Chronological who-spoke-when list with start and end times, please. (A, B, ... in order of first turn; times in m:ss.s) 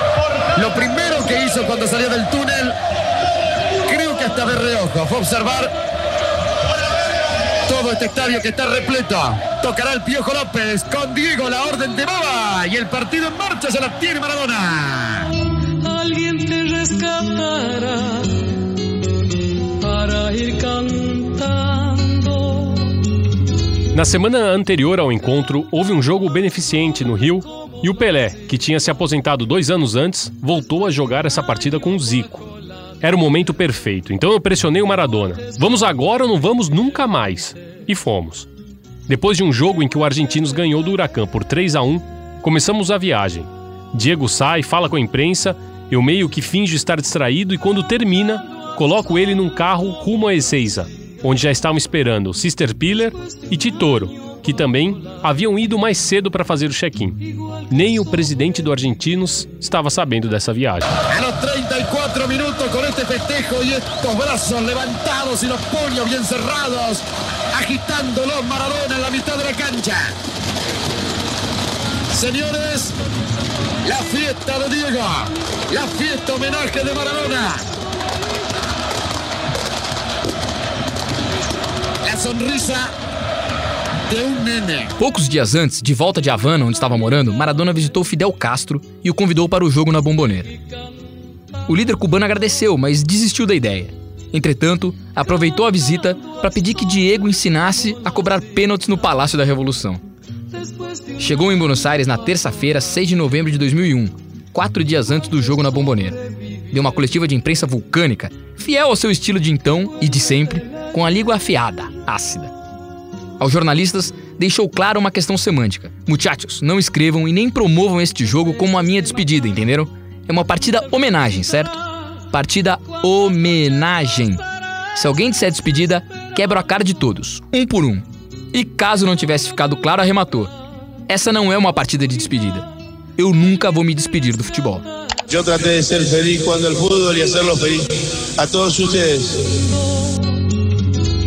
0:00.6-0:02.7 A
0:03.8-0:05.7 A
0:07.6-0:15.3 A
0:15.8-0:18.4 B
0:19.8-0:22.9 B
0:23.9-0:32.5 C
0:33.0-0:38.5 C
0:39.1-1:00.9 C
1:01.1-1:10.1 A
1:12.1-1:12.9 A
1:13.8-1:17.6 A
1:22.0-1:22.9 A
1:24.1-1:24.9 A
1:25.0-1:30.5 D
1:31.7-1:40.0 D
1:41.2-1:52.5 D
1:53.4-2:04.4 D
2:04.9-2:10.5 D
2:11.1-2:14.8 D
2:15.3-2:19.6 E